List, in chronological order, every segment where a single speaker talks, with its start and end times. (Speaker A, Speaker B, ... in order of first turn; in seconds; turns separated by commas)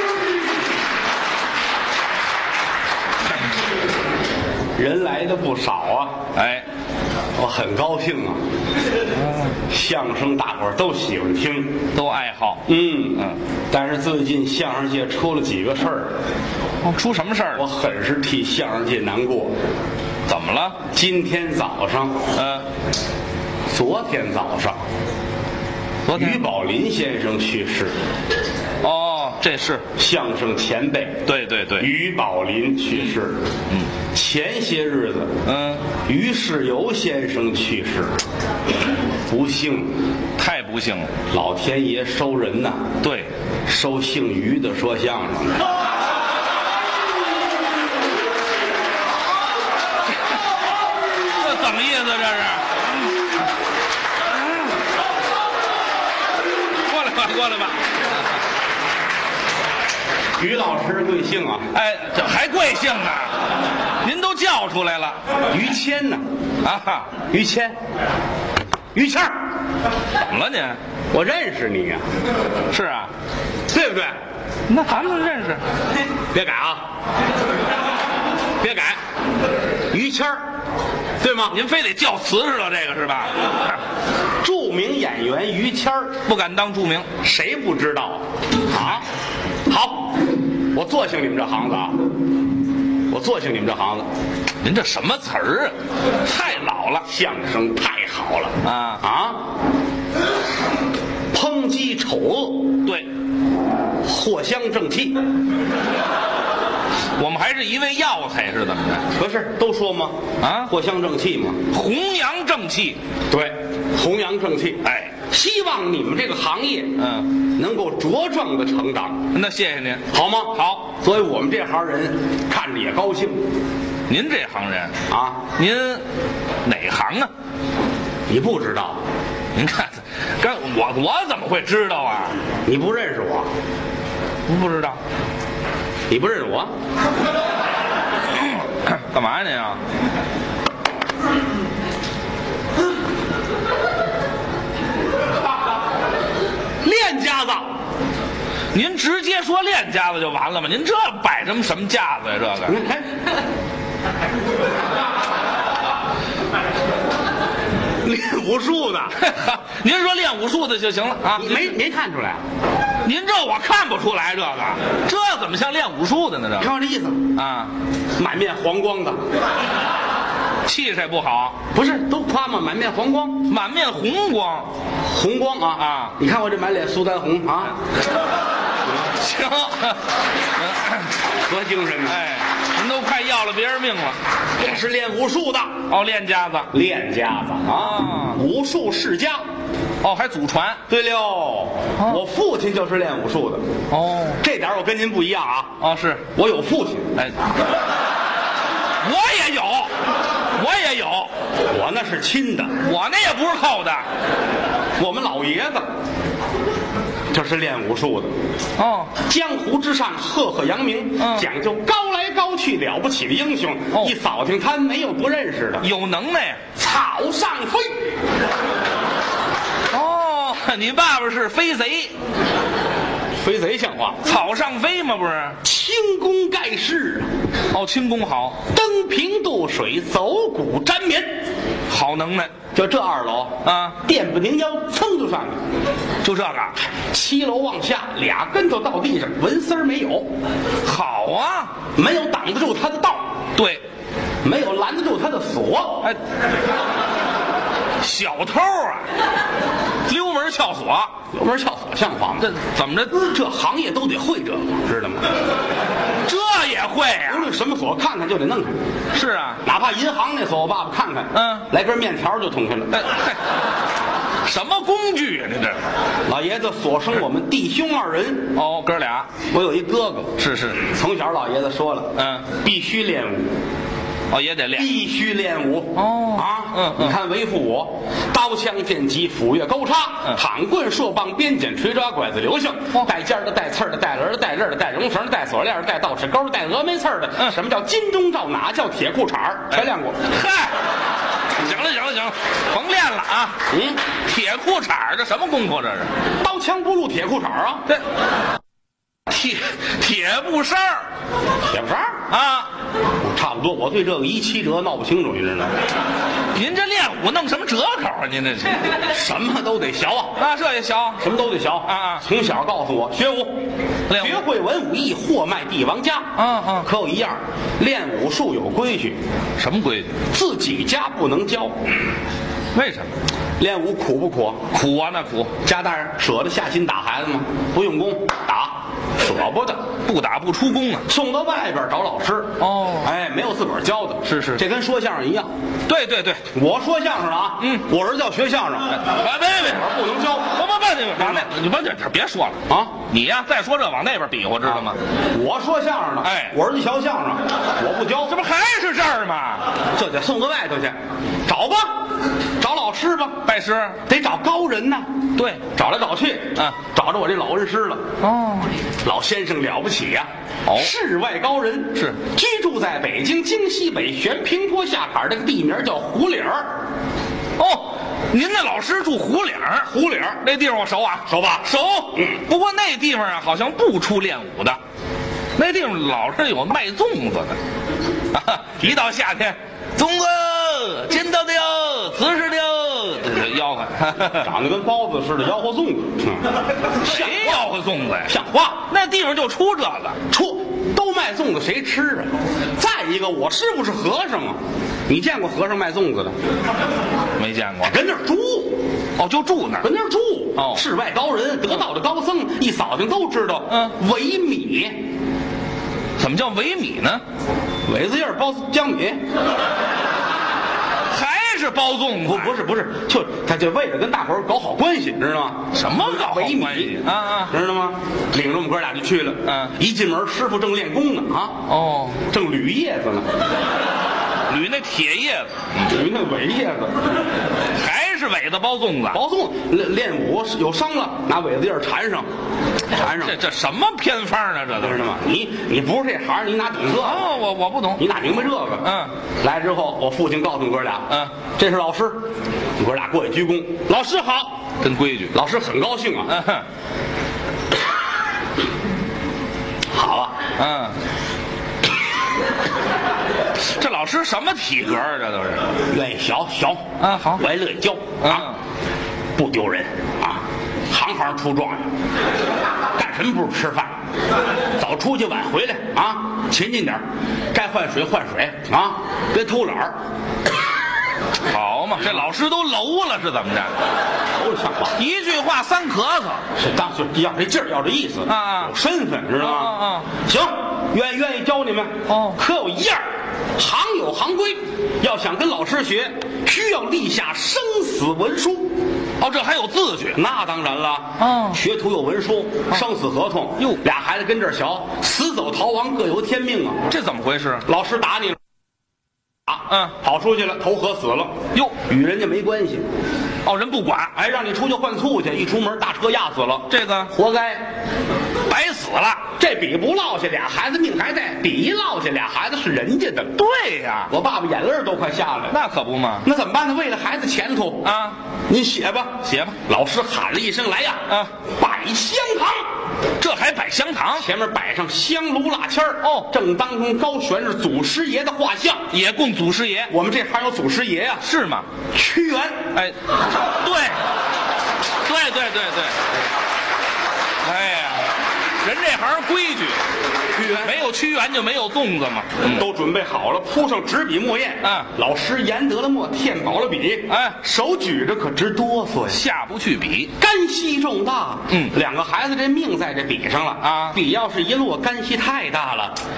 Speaker A: 4.8-6.2, Speaker B: 6.3-6.6, Speaker A: 7.4-8.4, Speaker B: 9.1-9.5, Speaker A: 9.7-11.8, Speaker B: 11.9-12.6, Speaker A: 12.7-16.1, Speaker B: 16.8-17.6, Speaker A: 17.5-19.5, Speaker B: 20.2-20.8, Speaker A: 20.9-22.2, Speaker B: 22.3-22.6, Speaker A: 23.7-24.8, Speaker B: 26.1-26.4, Speaker A: 26.1-27.9, Speaker B: 28.8-29.9, Speaker A: 29.9-33.4, Speaker B: 31.3-31.9, Speaker A: 34.1-35.4, Speaker B: 35.4-35.9, Speaker A: 36.0-38.1, Speaker A: 39.3-39.9, Speaker B: 40.4-41.1, Speaker A: 41.3-42.9, Speaker B: 43.0-43.3, Speaker A: 43.7-45.6, Speaker B: 51.3-52.9, Speaker B: 56.9-57.8, Speaker A: 60.4-61.7, Speaker B: 61.7-63.4, Speaker B: 64.0-65.2, Speaker A: 65.5-66.2, Speaker B: 66.6-67.1, Speaker A: 67.2-67.8, Speaker A: 68.9-69.3, Speaker B: 70.2-70.8, Speaker A: 71.1-72.0, Speaker B: 72.7-73.1, Speaker A: 73.7-74.1, Speaker B: 74.7-75.6, Speaker A: 76.3-76.8, Speaker A: 78.6-79.0, Speaker A: 79.9-80.4, Speaker A: 81.2-81.6, Speaker B: 81.5-83.7, Speaker A: 84.4-86.2, Speaker B: 86.2-87.1, Speaker A: 87.2-89.0, Speaker A: 89.7-90.2, Speaker A: 90.7-92.0, Speaker A: 93.1-94.0, Speaker B: 94.6-97.0, Speaker A: 97.0-99.4, Speaker B: 98.6-99.0, Speaker A: 101.3-102.7, Speaker A: 104.0-105.2, Speaker B: 107.2-109.1, Speaker A: 109.2-111.6, Speaker B: 110.4-110.7, Speaker B: 111.7-113.0, Speaker A: 113.3-117.0, Speaker B: 114.8-115.1, Speaker B: 117.0-117.3, Speaker A: 117.5-119.2, Speaker B: 119.3-120.8, Speaker A: 120.1-123.4, Speaker B: 124.1-124.9, Speaker A: 125.1-125.4, Speaker B: 125.5-126.0, Speaker B: 126.6-127.3, Speaker A: 128.3-129.0, Speaker B: 129.5-132.4, Speaker A: 132.7-133.5, Speaker B: 134.5-135.0, Speaker A: 136.1-136.7, Speaker B: 138.3-139.8, Speaker A: 146.8-147.7, Speaker B: 148.7-152.8, Speaker A: 152.7-153.1, Speaker A: 158.0-159.2, Speaker B: 159.2-161.7, Speaker A: 161.3-162.4, Speaker B: 163.0-166.7, Speaker A: 166.6-167.3, Speaker B: 167.3-167.7, Speaker A: 168.2-169.2, Speaker B: 170.6-171.6, Speaker A: 171.7-173.5, Speaker B: 173.5-174.7, Speaker A: 175.0-177.8, Speaker B: 175.8-176.1, Speaker B: 178.9-180.0, Speaker B: 180.5-181.1, Speaker A: 181.4-182.2, Speaker B: 182.1-184.2, Speaker A: 184.6-185.8, Speaker B: 185.9-186.7, Speaker A: 186.7-189.4, Speaker B: 187.7-188.4, Speaker B: 190.0-190.8, Speaker A: 190.9-193.6, Speaker B: 193.9-194.4, Speaker A: 194.4-195.8, Speaker B: 195.8-196.2, Speaker A: 196.3-197.2, Speaker B: 199.0-199.9, Speaker B: 200.5-201.3, Speaker A: 201.7-202.7, Speaker B: 202.8-204.0, Speaker A: 205.0-205.8, Speaker A: 207.3-208.3, Speaker B: 208.8-209.1, Speaker A: 209.2-215.8, Speaker B: 211.2-211.5, Speaker B: 215.8-216.6, Speaker A: 216.7-217.9, Speaker B: 219.9-222.1, Speaker A: 223.4-224.2, Speaker B: 224.2-225.6, Speaker A: 225.6-227.3, Speaker B: 227.7-228.6, Speaker A: 228.7-231.4, Speaker B: 231.9-232.5, Speaker A: 232.7-235.6, Speaker B: 233.6-234.0, Speaker B: 236.2-236.7, Speaker A: 237.1-240.3, Speaker B: 240.8-241.8, Speaker A: 241.9-243.3, Speaker B: 243.6-243.8, Speaker A: 244.4-246.1, Speaker B: 248.0-249.1, Speaker B: 250.1-251.1, Speaker A: 251.3-252.5, Speaker B: 252.4-253.2, Speaker A: 253.1-255.3, Speaker B: 256.2-257.5, Speaker A: 257.3-258.8, Speaker B: 259.1-259.6, Speaker A: 259.6-262.9, Speaker B: 261.3-261.7, Speaker B: 262.9-263.4, Speaker B: 264.4-265.8, Speaker A: 266.3-268.6, Speaker B: 268.5-269.3, Speaker A: 269.5-273.5, Speaker B: 270.4-270.8, Speaker B: 272.1-272.5, Speaker B: 274.3-274.9, Speaker A: 274.7-290.2, Speaker B: 275.9-277.2, Speaker B: 290.2-290.8, Speaker B: 291.6-293.6, Speaker A: 293.7-294.0, Speaker B: 294.2-296.1, Speaker A: 296.4-297.9, Speaker B: 299.3-301.0, Speaker A: 301.7-302.2, Speaker B: 302.3-302.7, Speaker A: 303.2-305.7, Speaker B: 306.5-308.9, Speaker A: 309.0-310.4, Speaker B: 310.4-311.2, Speaker A: 311.2-319.2, Speaker B: 311.8-312.2, Speaker B: 314.1-314.4, Speaker B: 316.4-316.9, Speaker B: 319.6-320.2, Speaker A: 320.3-321.8, Speaker B: 322.7-323.1, Speaker A: 323.6-324.6, Speaker B: 324.7-325.5, Speaker A: 325.6-329.9, Speaker B: 330.0-331.1, Speaker A: 331.1-335.5, Speaker B: 332.6-333.1, Speaker B: 334.2-334.6, Speaker B: 335.9-336.4, Speaker A: 336.5-339.1, Speaker B: 338.9-339.9, Speaker A: 339.6-340.5, Speaker B: 340.4-345.0, Speaker A: 341.2-341.5, Speaker A: 342.7-342.9, Speaker A: 344.7-348.4, Speaker B: 346.2-346.5, Speaker B: 348.2-349.7, Speaker A: 349.9-352.0, Speaker A: 352.6-353.4, Speaker B: 353.4-354.0, Speaker A: 354.1-355.1, Speaker B: 355.4-355.6, Speaker A: 355.7-358.0, Speaker B: 358.2-358.7, Speaker A: 359.0-366.7, Speaker B: 360.6-360.9, Speaker B: 367.6-369.9, Speaker A: 369.8-370.4, Speaker B: 370.4-374.8, Speaker A: 371.3-372.4, Speaker B: 375.6-377.6, Speaker B: 378.3-384.5, Speaker A: 384.4-387.7, Speaker B: 387.0-388.3, Speaker A: 388.2-388.9, Speaker B: 388.9-390.2, Speaker A: 390.3-396.3, Speaker B: 397.4-397.9, Speaker A: 397.8-398.8, Speaker B: 399.2-399.9, Speaker A: 399.8-405.0, Speaker B: 406.2-407.2, Speaker A: 407.9-409.2, Speaker B: 411.1-412.5, Speaker A: 412.3-421.7, Speaker B: 415.7-417.5, Speaker B: 419.4-419.7, Speaker B: 421.7-422.2, Speaker A: 422.2-423.2, Speaker B: 424.5-425.9, Speaker A: 425.9-427.1, Speaker B: 427.7-429.2, Speaker A: 429.1-432.3, Speaker A: 432.9-433.4, Speaker B: 433.1-435.0, Speaker A: 434.8-437.3, Speaker B: 436.9-438.0, Speaker A: 438.0-442.2, Speaker B: 438.8-439.1, Speaker A: 442.8-444.6, Speaker B: 444.8-445.3, Speaker A: 445.3-446.3, Speaker B: 446.3-446.6, Speaker A: 449.9-450.4, Speaker B: 450.6-451.0, Speaker B: 453.6-455.7, Speaker A: 455.9-458.5, Speaker B: 457.0-457.4, Speaker B: 458.2-458.6, Speaker A: 459.4-461.9, Speaker A: 462.9-463.9, Speaker A: 464.8-469.9, Speaker B: 471.5-473.7, Speaker A: 474.4-474.9, Speaker B: 475.0-476.4, Speaker A: 476.6-483.0, Speaker B: 478.2-478.7, Speaker B: 479.4-480.1, Speaker B: 482.1-482.4, Speaker A: 483.6-488.7, Speaker B: 489.2-490.2, Speaker A: 490.1-496.8, Speaker B: 491.2-491.6, Speaker B: 496.9-497.6, Speaker A: 497.6-498.4, Speaker A: 499.5-502.9, Speaker B: 503.4-504.1, Speaker A: 504.1-507.6, Speaker B: 506.7-507.1, Speaker B: 508.5-509.3, Speaker A: 509.4-513.4, Speaker B: 513.4-514.1, Speaker A: 514.1-515.6, Speaker B: 515.5-516.2, Speaker A: 516.2-517.9, Speaker B: 517.8-518.2, Speaker A: 518.5-522.6, Speaker B: 519.2-519.6, Speaker B: 523.2-524.2, Speaker A: 524.1-528.9, Speaker B: 526.0-526.3, Speaker B: 528.9-529.9, Speaker A: 529.9-531.3, Speaker B: 531.2-531.7, Speaker A: 531.9-532.7, Speaker B: 533.5-534.0, Speaker B: 535.0-536.0, Speaker B: 537.4-539.8, Speaker A: 540.3-540.7, Speaker B: 540.6-542.7, Speaker A: 542.5-549.2, Speaker B: 544.6-544.9, Speaker B: 547.1-547.4, Speaker B: 549.1-550.1, Speaker A: 550.2-556.0, Speaker B: 553.6-554.0